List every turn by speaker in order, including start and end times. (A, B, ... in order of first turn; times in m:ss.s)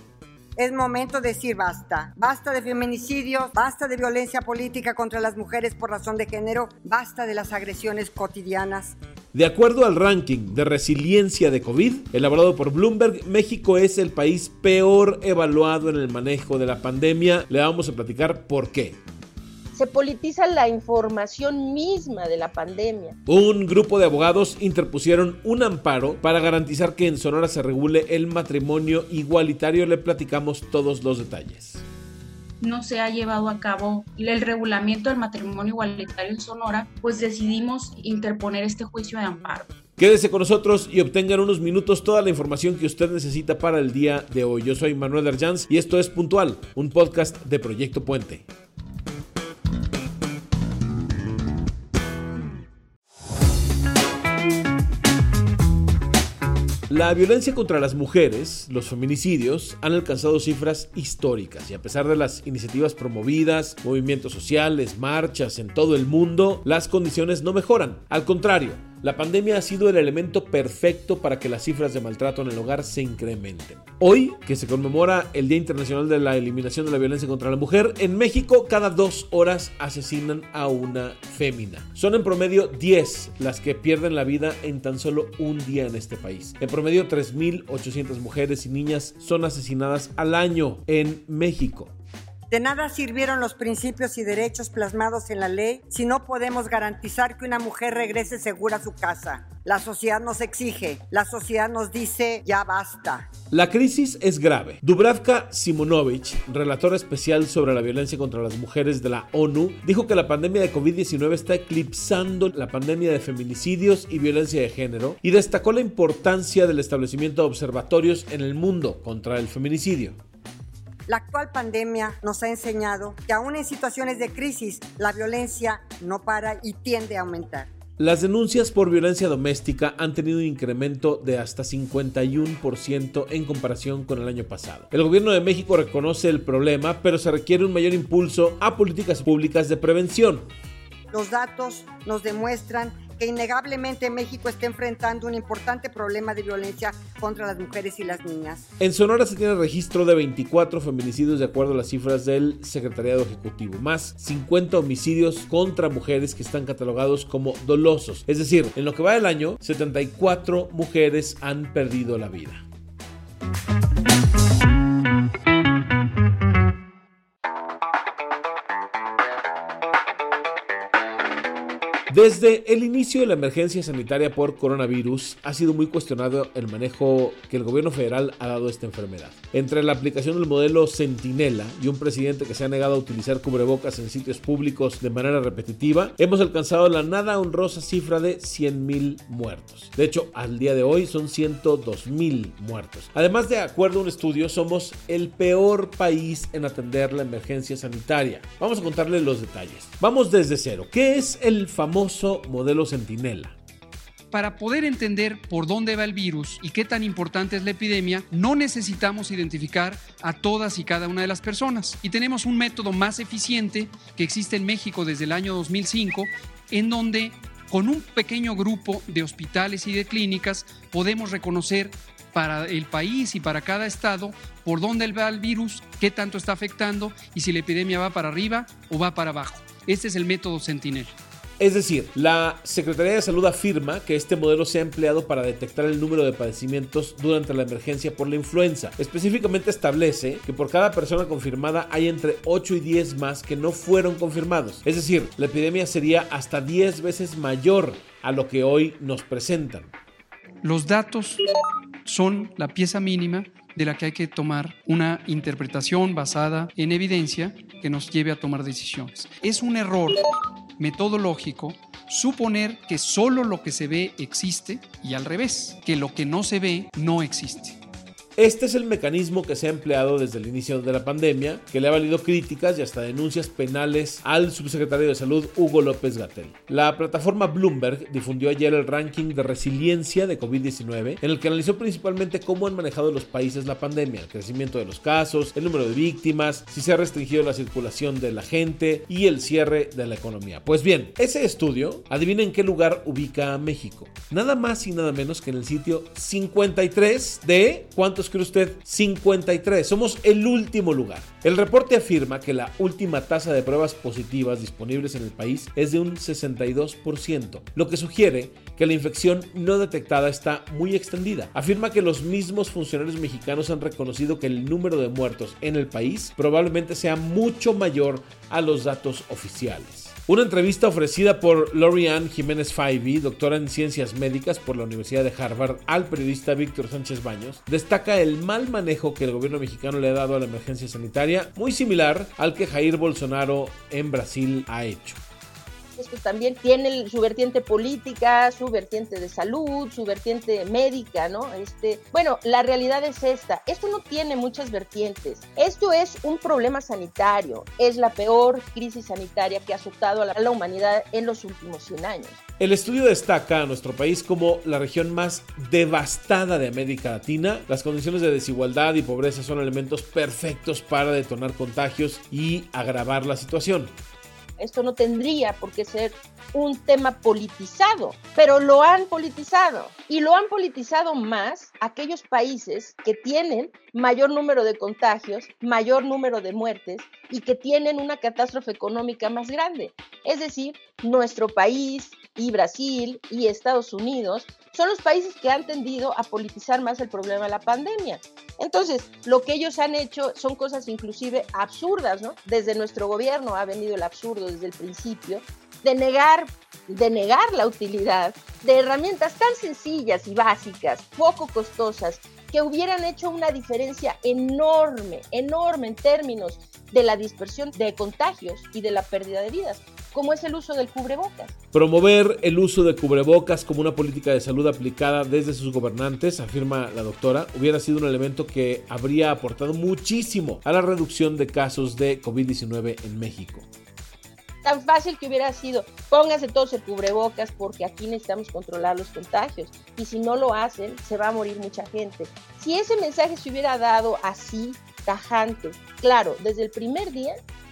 0:00.6-0:09.0 A
0:09.3-0:19.0 B
0:19.7-0:23.2 C
0:23.3-0:31.8 B
0:32.6-0:39.7 D
0:40.0-0:48.5 B
0:56.9-1:31.9 B
1:32.5-1:43.3 A
1:43.5-2:00.2 B
2:01.1-2:07.7 A
2:08.0-2:20.5 B
2:21.1-2:28.6 A
2:28.8-2:42.6 B
2:52.1-3:23.6 B
3:24.3-3:51.1 E
3:51.6-4:09.9 B
4:10.6-4:11.4 E
4:12.0-4:20.2 E
4:20.8-4:27.8 E
4:28.4-5:35.2 B
5:36.0-5:52.4 C
5:52.6-6:03.9 B
6:04.6-6:51.5 C
6:51.7-7:03.7 B
7:04.6-7:17.4 C